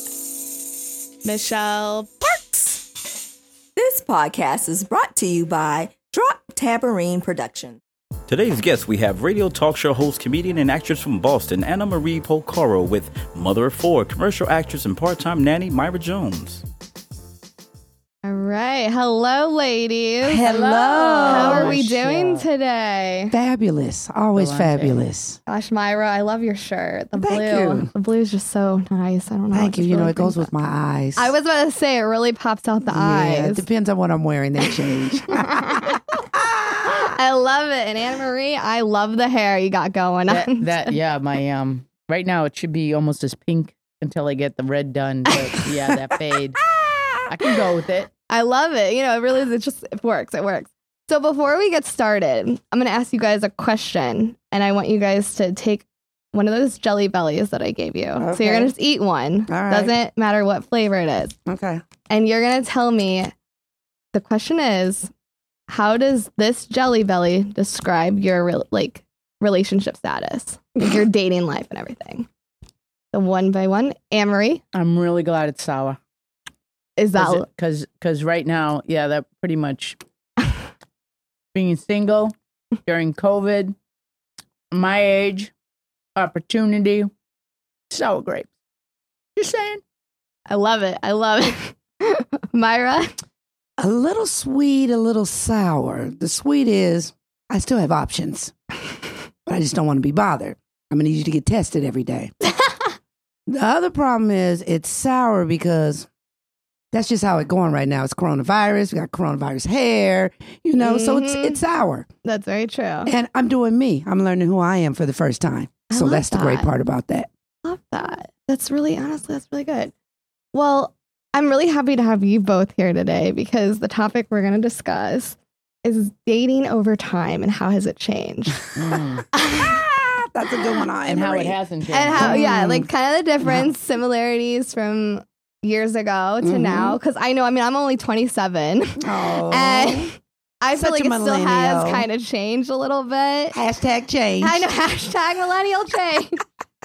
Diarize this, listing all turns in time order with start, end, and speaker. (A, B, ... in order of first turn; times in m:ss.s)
0:01.2-0:02.8 A
0:03.8-0:07.8 B
0:08.3-0:16.6 C
0:18.2-0:20.4 A
0:20.2-0:21.8 D
0:20.4-0:22.4 E
0:21.2-0:23.3 A
0:23.3-0:25.4 D
0:24.4-0:25.0 E
0:25.5-0:30.5 A
0:27.2-0:27.9 D
0:29.5-0:31.3 D
0:31.2-0:33.6 A
0:32.9-0:37.1 D
0:35.3-0:36.2 A
0:36.8-0:40.9 A
0:40.3-0:46.6 E
0:47.3-0:48.1 E
0:48.3-1:01.3 A
0:58.2-0:58.7 D
0:59.5-0:59.9 D
1:01.4-1:01.8 D
1:02.1-1:03.3 A
1:04.1-1:05.1 A
1:05.7-1:12.3 A
1:13.1-1:14.6 A
1:14.7-1:16.0 E
1:17.0-1:17.4 A
1:17.2-1:20.0 E
1:21.5-1:22.3 E
1:22.8-1:23.7 E
1:24.7-1:25.5 E
1:26.2-1:27.1 E
1:27.9-1:28.5 E
1:29.4-1:29.8 E
1:30.5-1:33.1 A
1:33.8-1:38.5 D
1:39.4-1:42.3 D
1:42.6-1:42.9 A
1:43.5-1:46.1 D
1:46.9-1:52.1 D
1:50.8-1:51.6 A
1:52.2-1:53.1 A
1:53.0-1:57.3 D
1:55.9-1:56.7 A
1:57.6-1:59.9 A
2:00.5-2:08.6 A
2:08.8-2:09.2 E
2:09.3-2:09.8 A
2:09.6-2:11.6 D
2:11.0-2:12.4 E
2:11.9-2:23.6 A
2:12.1-2:12.9 D
2:16.4-2:17.0 D
2:19.0-2:20.1 D
2:20.7-2:22.0 D
2:23.5-2:24.6 D
2:24.4-2:26.4 A